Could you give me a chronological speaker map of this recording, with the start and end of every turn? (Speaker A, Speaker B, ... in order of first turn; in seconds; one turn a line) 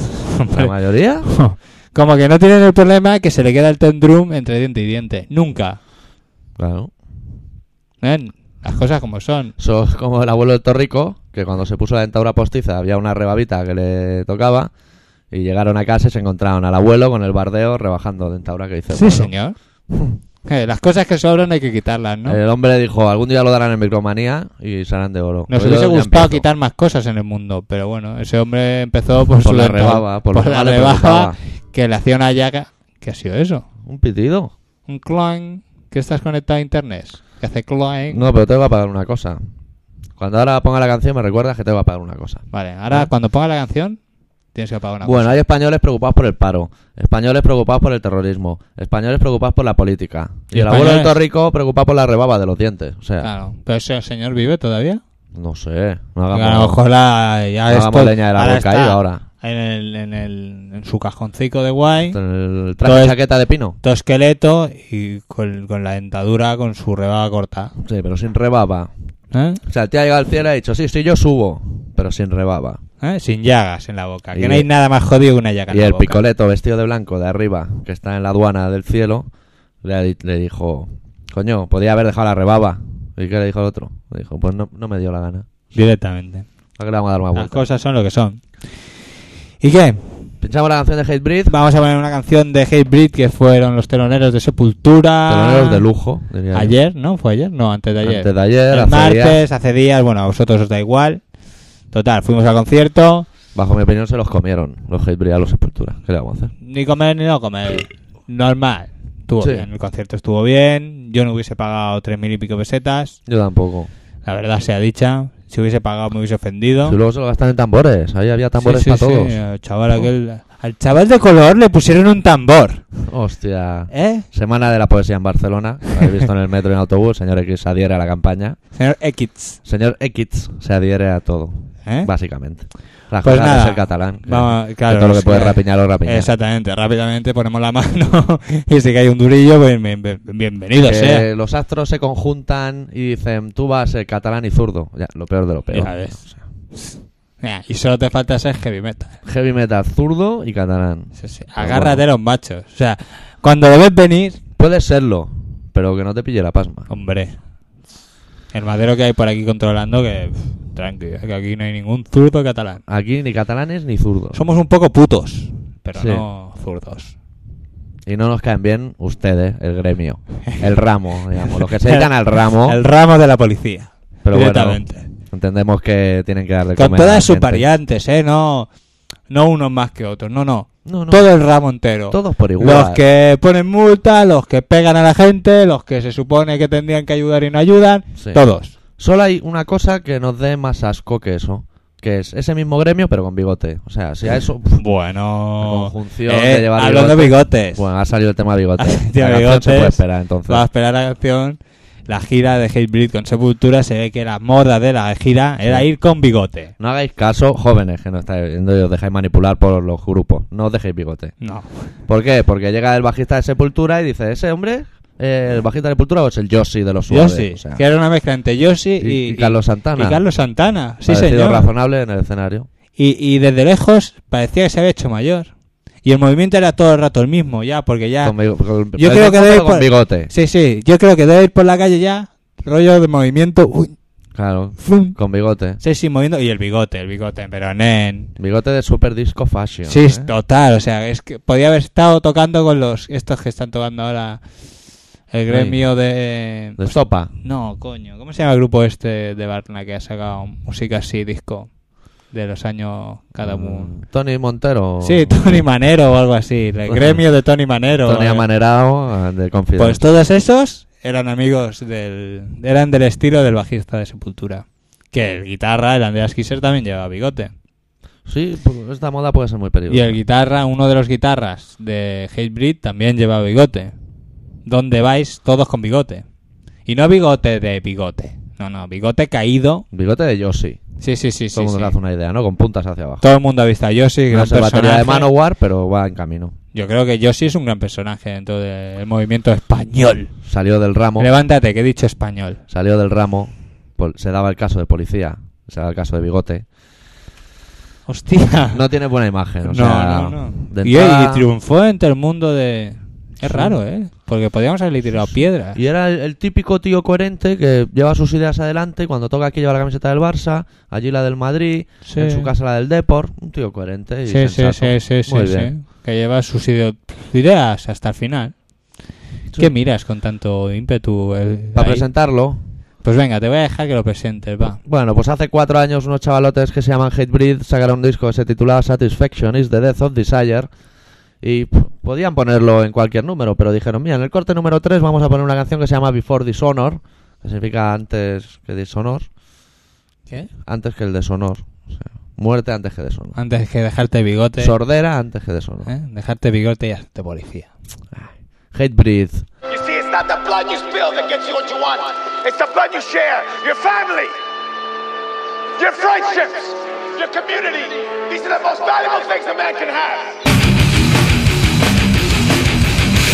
Speaker A: 0.3-0.7
Speaker B: 0.5-1.3
Speaker A: 1.2-5.8
Speaker B: 6.6-6.9
Speaker A: 8.0-9.5
Speaker B: 9.6-14.7
Speaker B: 15.3-19.3
Speaker A: 18.9-19.6
Speaker A: 20.4-22.4
Speaker B: 22.3-26.4
Speaker A: 25.5-33.6
Speaker B: 29.4-31.4
Speaker B: 33.9-34.5
Speaker A: 34.9-38.2
Speaker B: 38.1-39.4
Speaker B: 40.2-43.1
Speaker A: 42.5-44.0
Speaker A: 44.5-45.4
Speaker B: 45.0-53.3
Speaker A: 50.5-51.1
Speaker A: 53.2-55.0
Speaker B: 55.3-56.8
Speaker A: 56.3-62.2
Speaker B: 57.7-59.2
Speaker B: 62.1-63.8
Speaker A: 62.8-63.2
Speaker A: 63.8-67.7
Speaker B: 67.8-68.9
Speaker A: 69.3-69.6
Speaker B: 69.7-72.8
Speaker A: 73.0-76.2
Speaker B: 74.3-74.7
Speaker B: 75.7-79.3
Speaker B: 79.8-85.5
Speaker A: 85.7-86.5
Speaker B: 86.8-87.7
Speaker A: 87.3-88.9
Speaker A: 89.6-90.3
Speaker B: 90.4-91.5
Speaker A: 91.5-95.8
Speaker B: 95.3-96.8
Speaker A: 96.5-101.2
Speaker B: 98.0-99.4
Speaker A: 101.9-103.3
Speaker B: 103.5-106.5
Speaker A: 106.6-113.2
Speaker B: 109.4-109.7
Speaker B: 113.3-113.9
Speaker A: 114.2-117.0
Speaker B: 116.8-119.4
Speaker A: 118.6-122.8
Speaker B: 123.0-128.6
Speaker A: 123.9-124.3
Speaker A: 128.8-129.6
Speaker B: 129.7-136.3
Speaker A: 131.8-132.1
Speaker A: 133.2-141.3
Speaker B: 140.8-146.4
Speaker A: 145.7-149.2
Speaker B: 149.2-152.0
Speaker A: 151.2-154.4
Speaker B: 154.6-156.9
Speaker A: 156.9-157.4
Speaker A: 158.5-162.8
Speaker B: 162.9-164.4
Speaker A: 164.3-167.2
Speaker B: 166.0-166.2
Speaker B: 168.1-172.8
Speaker A: 171.5-175.1
Speaker B: 174.2-177.6
Speaker A: 176.8-178.7
Speaker A: 179.3-188.7
Speaker B: 180.8-181.3
Speaker B: 182.1-183.0
Speaker B: 188.2-188.4
Speaker B: 189.0-194.9
Speaker A: 194.8-197.8
Speaker B: 195.6-200.7
Speaker A: 198.8-206.7
Speaker B: 206.8-211.5
Speaker A: 211.4-211.9
Speaker B: 212.0-217.8
Speaker A: 217.1-221.7
Speaker B: 219.0-220.2
Speaker B: 221.1-222.7
Speaker A: 223.0-225.5
Speaker A: 226.0-228.3
Speaker B: 228.2-230.3
Speaker A: 229.0-234.0
Speaker B: 234.3-235.8
Speaker A: 234.8-235.2
Speaker A: 235.8-238.3
Speaker B: 238.4-240.3
Speaker A: 239.9-244.5
Speaker A: 245.3-251.7
Speaker B: 245.5-245.8
Speaker B: 246.8-247.3
Speaker A: 252.3-253.9
Speaker B: 253.4-255.6
Speaker A: 255.0-258.4
Speaker B: 256.9-257.2
Speaker B: 258.1-260.0
Speaker A: 259.8-267.5
Speaker B: 268.3-270.2
Speaker A: 269.9-273.9
Speaker A: 274.6-276.2
Speaker A: 276.9-279.9
Speaker B: 279.9-280.8
Speaker A: 281.0-281.9
Speaker B: 281.5-283.2
Speaker A: 283.2-285.3
Speaker B: 284.3-286.6
Speaker A: 286.7-290.3
Speaker B: 290.4-291.3
Speaker A: 291.2-292.6
Speaker B: 292.7-296.6
Speaker A: 298.1-298.8
Speaker B: 298.7-301.5
Speaker A: 299.6-305.8
Speaker B: 303.4-303.8
Speaker B: 305.8-315.7
Speaker A: 312.1-312.5
Speaker A: 314.3-318.6
Speaker A: 319.6-322.1
Speaker B: 321.8-322.6
Speaker A: 323.0-324.8
Speaker B: 324.8-330.7
Speaker B: 331.4-339.3
Speaker B: 340.6-343.4
Speaker A: 343.4-344.8
Speaker B: 344.6-345.9
Speaker A: 345.9-347.7
Speaker B: 348.1-349.5
Speaker C: 349.7-354.4
Speaker C: 355.8-360.4